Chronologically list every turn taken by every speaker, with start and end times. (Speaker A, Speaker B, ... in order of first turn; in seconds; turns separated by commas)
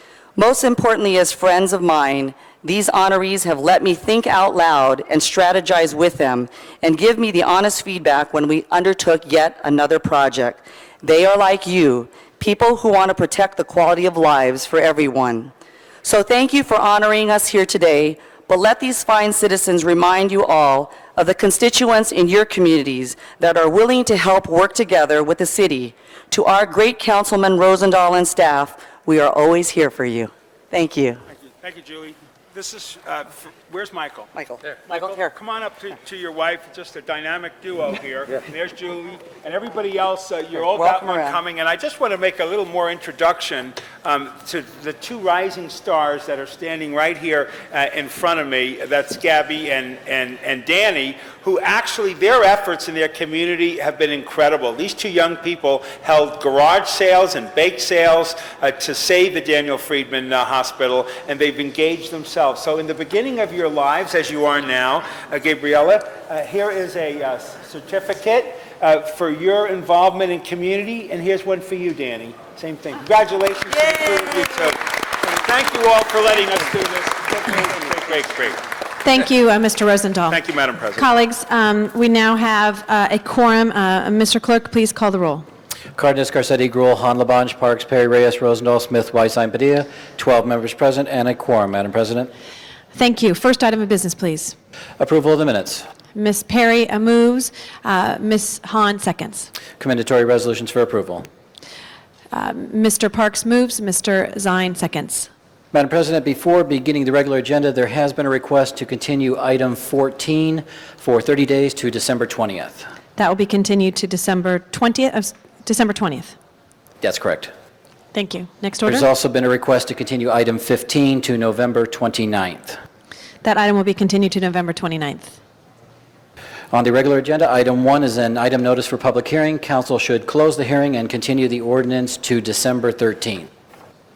Speaker A: 0.4-15.5, Speaker A: 16.0-31.2, Speaker B: 31.6-34.3, Speaker A: 34.3-35.3, Speaker B: 34.8-78.6, Speaker A: 40.8-41.4, Speaker C: 79.0-80.4, Speaker B: 80.3-81.1, Speaker C: 80.9-85.5, Speaker D: 86.0-92.3, Speaker C: 92.9-94.5, Speaker D: 95.0-95.8, Speaker C: 96.1-99.5, Speaker D: 99.8-101.2, Speaker C: 102.3-105.3, Speaker D: 105.7-112.8, Speaker C: 113.2-116.4, Speaker D: 117.0-117.5, Speaker C: 118.1-119.1, Speaker D: 118.9-122.8, Speaker C: 123.4-125.4, Speaker D: 126.7-133.5